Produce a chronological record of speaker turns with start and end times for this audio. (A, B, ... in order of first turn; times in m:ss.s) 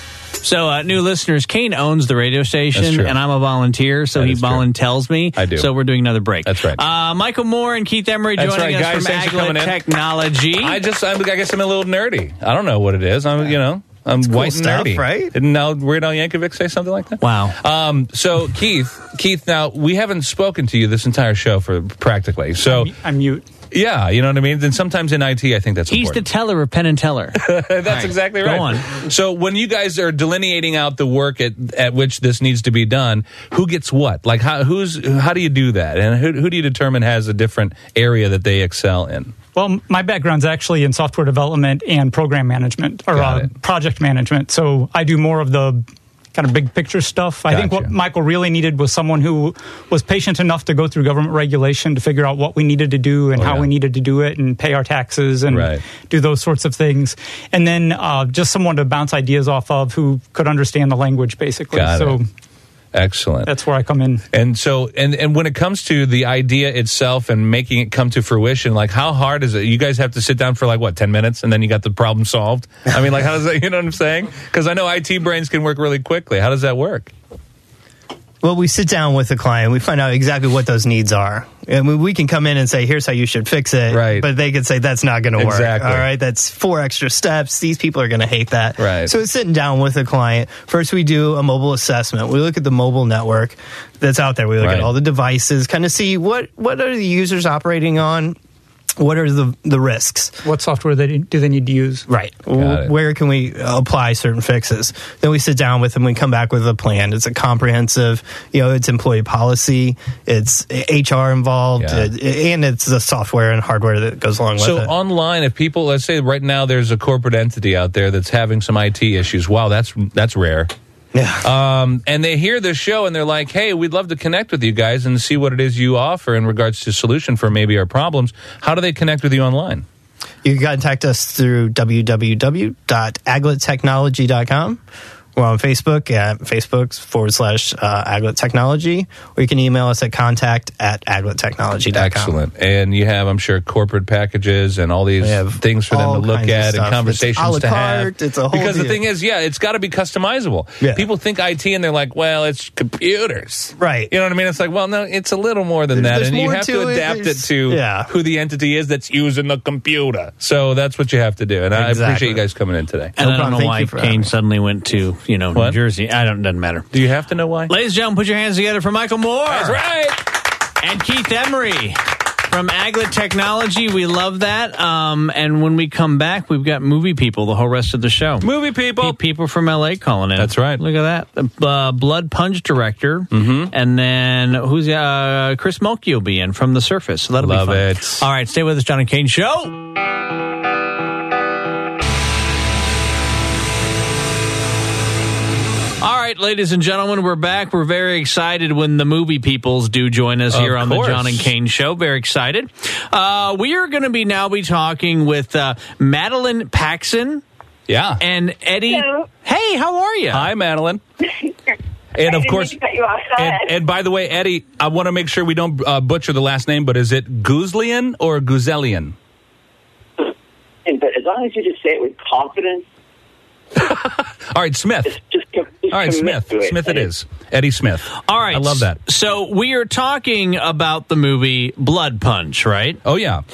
0:00.4-0:10.8 A
0:02.7-0:03.1 B
0:04.2-0:04.7 B
0:05.4-0:05.7 B
0:06.4-0:06.8 B
0:08.4-0:09.8 B
0:10.6-0:22.9 B
0:14.2-0:15.3 C
0:17.2-0:17.6 A
0:22.6-0:23.4 D
0:23.7-0:26.2 B
0:25.9-0:28.9 A
0:27.4-0:39.3 B
0:39.6-1:02.3 D
0:43.1-0:43.5 B
0:47.5-0:47.9 B
0:53.3-0:53.7 B
0:55.5-0:55.8 B
1:01.7-1:02.2 B
1:02.9-1:03.5 B
1:03.4-1:04.2 D
1:04.3-1:17.1 B
1:18.4-1:38.4 C
1:23.9-1:24.3 B
1:25.4-1:26.0 B
1:28.8-1:29.1 B
1:34.6-1:34.9 B
1:39.0-1:40.4 C
1:40.4-1:42.0 D
1:42.1-1:54.9 C
1:42.6-1:42.9 B
1:51.8-1:52.1 B
1:54.6-2:00.7 B
2:01.1-2:01.4 C
2:01.4-2:09.8 B
2:10.4-2:14.8 C
2:15.4-2:22.3 C
2:21.9-2:43.1 B
2:25.2-2:29.0 C
2:30.8-2:31.0 C
2:33.8-2:34.1 C
2:35.9-2:38.1 C
2:41.7-2:42.4 C
2:43.2-2:44.3 C
2:43.2-2:46.9 A
2:46.9-2:47.7 B
2:47.7-2:49.8 A
2:49.5-2:50.2 B
2:50.8-2:58.5 A
2:58.4-2:59.2 B
2:59.0-3:09.8 A
3:00.4-3:00.8 B
3:03.3-3:03.7 B
3:07.4-3:08.2 B
3:16.0-3:27.4 A
3:20.5-3:21.5 B
3:27.9-3:28.2 B
3:28.2-3:30.5 A
3:28.8-3:29.3 E
3:30.3-3:31.0 B
3:32.1-3:32.8 B
3:32.2-3:33.7 E
3:33.4-3:39.1 B
3:40.8-3:42.9 F
3:43.8-3:45.2 B
3:45.0-3:47.1 F
3:45.9-3:49.0 B
3:48.2-3:53.0 A
3:53.0-3:53.4 B